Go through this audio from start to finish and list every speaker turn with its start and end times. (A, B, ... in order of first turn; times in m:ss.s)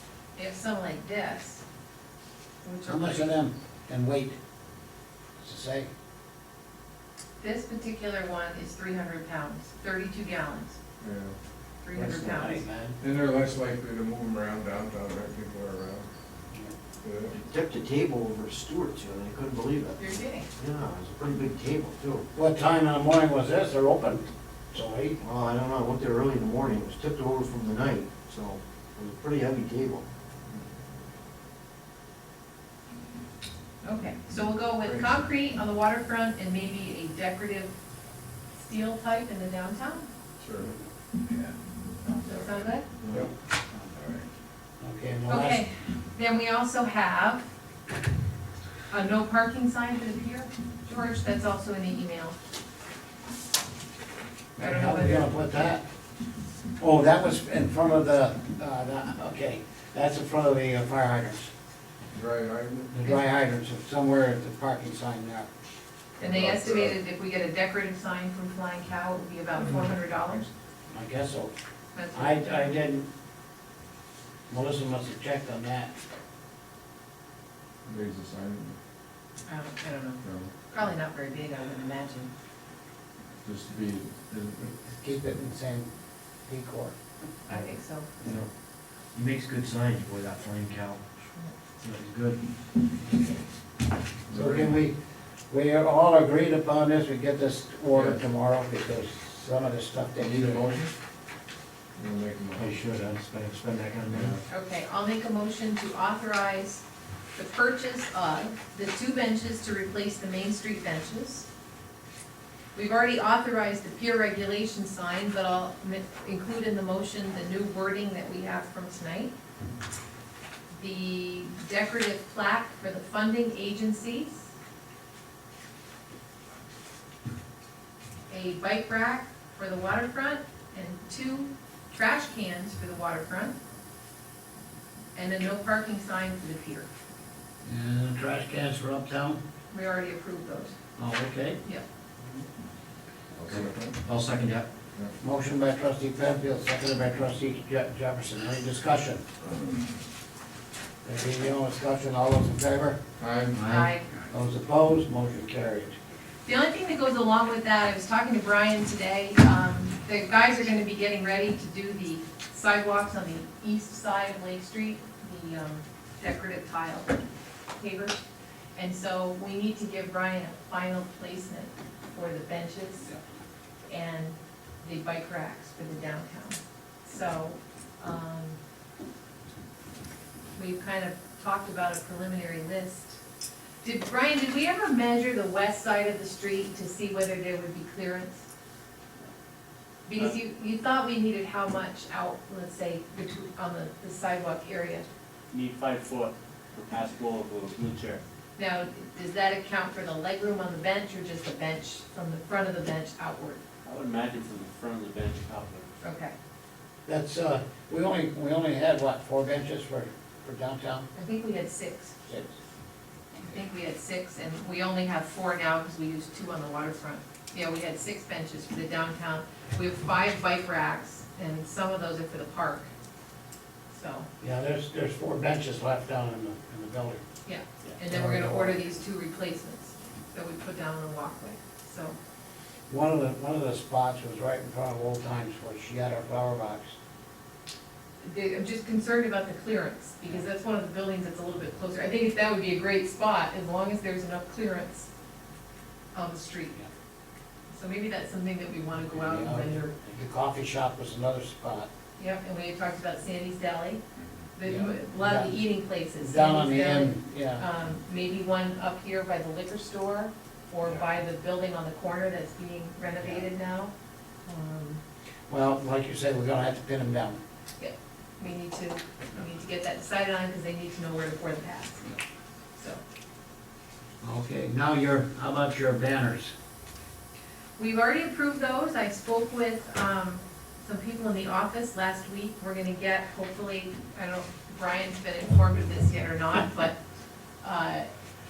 0:00.4-0:01.6 A
0:02.6-0:03.4 A
0:02.9-0:04.4 B
0:05.4-0:05.9 B
0:07.4-0:10.8 A
0:11.0-0:11.4 C
0:11.8-0:12.6 A
0:11.9-0:13.0 B
0:13.0-0:16.1 C
0:17.0-0:17.4 C
0:17.3-0:22.3 D
0:20.0-0:20.5 A
0:22.3-0:25.2 B
0:25.2-0:30.0 D
0:33.8-0:37.7 A
0:34.8-0:35.1 C
0:38.6-0:40.1 A
0:40.4-0:40.7 C
0:42.1-0:42.9 A
0:43.0-0:43.3 C
0:44.8-0:45.6 B
0:45.3-0:47.5 A
0:48.9-0:52.4 A
0:54.6-0:55.8 B
0:54.6-0:55.3 A
0:56.8-1:01.5 B
1:02.1-1:03.0 C
1:02.9-1:05.5 B
1:06.2-1:10.5 A
1:06.2-1:07.0 C
1:10.9-1:11.5 B
1:12.0-1:12.8 A
1:12.1-1:13.1 B
1:14.5-1:15.9 B
1:17.8-1:18.8 C
1:19.5-1:22.3 A
1:20.2-1:20.5 C
1:23.4-1:24.7 C
1:24.6-1:25.9 B
1:26.5-1:26.9 B
1:27.5-1:28.1 A
1:27.5-1:28.5 D
1:29.1-1:31.0 D
1:31.8-1:32.9 D
1:34.3-1:34.8 C
1:34.3-1:35.0 B
1:35.5-1:40.6 B
1:37.9-1:38.2 C
1:40.2-1:40.9 C
1:42.0-1:42.8 C
1:42.6-1:44.3 D
1:44.1-1:44.4 C
1:44.5-1:46.8 A
1:47.4-1:51.5 A
1:52.8-1:59.3 A
2:00.7-2:04.5 A
2:08.3-2:13.6 A
2:15.2-2:16.9 A
2:17.6-2:19.4 B
2:19.7-2:20.8 A
2:21.0-2:21.6 B
2:23.4-2:24.7 D
2:23.5-2:24.0 C
2:25.2-2:29.2 B
2:31.0-2:33.0 B
2:33.2-2:33.6 C
2:33.5-2:34.0 D
2:33.7-2:34.1 A
2:34.3-2:36.0 B
2:36.5-2:47.2 A
2:47.8-2:48.2 A
2:48.8-2:53.1 A
2:53.9-2:58.6 A
3:00.6-3:03.2 A
3:03.8-3:08.4 A
3:10.1-3:15.1 A
3:15.5-3:18.2 E
3:18.6-3:23.6 A
3:23.8-3:25.9 E
3:26.0-3:26.3 A
3:27.1-3:31.1 B
3:31.2-3:32.1 A
3:32.3-3:32.5 B
3:33.4-3:42.9 A
3:43.9-3:44.3 A
3:44.4-3:47.2 B
3:47.4-3:52.2 A
3:48.1-3:48.9 B
3:52.9-3:57.0 B
3:58.2-4:05.1 A
4:06.1-4:06.8 A
4:07.7-4:10.0 A
4:09.1-4:11.9 B
4:12.2-4:14.0 A
4:14.6-4:23.9 A
4:14.6-4:15.6 B
4:16.2-4:17.7 B
4:24.5-4:25.0 A
4:25.5-4:27.4 B
4:27.8-4:32.2 A
4:32.8-4:33.0 A
4:34.2-4:36.5 B
4:37.8-4:47.0 A
4:47.6-4:48.1 A